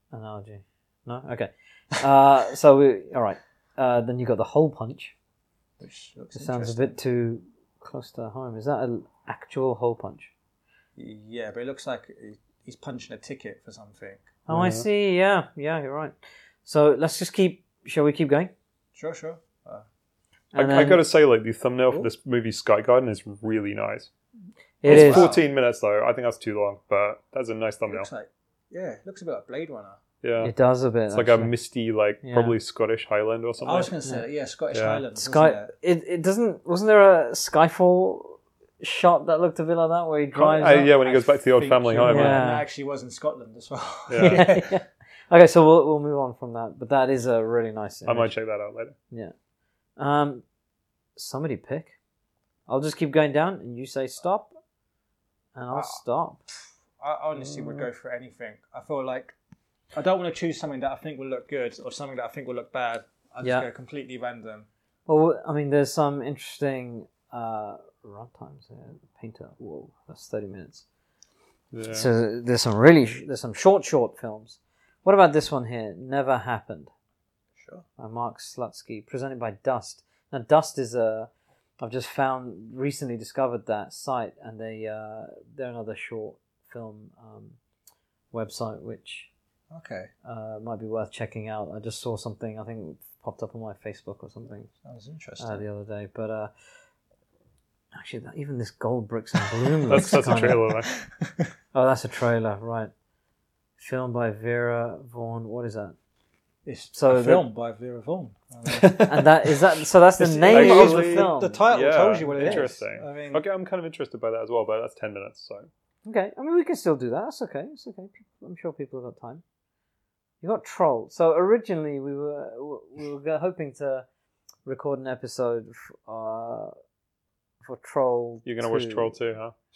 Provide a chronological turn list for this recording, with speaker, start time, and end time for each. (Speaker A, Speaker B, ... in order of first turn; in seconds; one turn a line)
Speaker A: 0.1-5.2
Speaker B: 5.8-7.0
Speaker A: 6.3-10.3
Speaker B: 11.0-14.3
Speaker A: 14.5-18.5
Speaker C: 14.5-14.9
Speaker B: 18.9-19.9
Speaker A: 20.5-21.0
Speaker C: 20.6-24.1
Speaker A: 24.8-25.3
Speaker B: 24.8-25.4
Speaker C: 24.9-28.1
Speaker B: 27.9-30.0
Speaker C: 30.2-30.5
Speaker A: 30.4-31.5
Speaker C: 31.1-33.9
Speaker A: 32.2-32.6
Speaker B: 33.6-35.7
Speaker C: 34.7-35.0
Speaker A: 35.1-40.9
Speaker C: 40.3-42.4
Speaker B: 40.8-44.7
Speaker A: 42.0-42.7
Speaker C: 44.1-44.5
Speaker A: 44.2-48.4
Speaker C: 48.1-49.0
Speaker A: 50.0-50.4
Speaker A: 51.2-52.0
Speaker A: 52.7-54.5
Speaker A: 55.5-56.5
Speaker B: 55.7-56.0
Speaker B: 56.5-59.4
Speaker C: 57.4-57.9
Speaker B: 59.9-64.7
Speaker A: 63.4-63.7
Speaker A: 65.1-70.8
Speaker C: 71.7-72.1
Speaker A: 71.9-76.9
Speaker B: 77.6-77.8
Speaker A: 78.0-87.6
Speaker A: 88.3-89.3
Speaker B: 89.7-90.1
Speaker A: 90.2-94.7
Speaker B: 94.8-95.6
Speaker A: 95.4-96.5
Speaker A: 97.9-100.7
Speaker C: 99.9-100.9
Speaker B: 100.5-101.3
Speaker A: 101.7-102.9
Speaker A: 103.8-106.0
Speaker B: 106.7-109.2
Speaker A: 106.9-107.5
Speaker C: 108.7-109.2
Speaker A: 109.0-111.7
Speaker B: 110.2-113.4
Speaker C: 110.5-115.7
Speaker A: 112.2-112.7
Speaker A: 116.0-119.4
Speaker A: 120.4-124.1
Speaker A: 124.7-126.8
Speaker A: 127.6-129.2
Speaker C: 128.4-129.6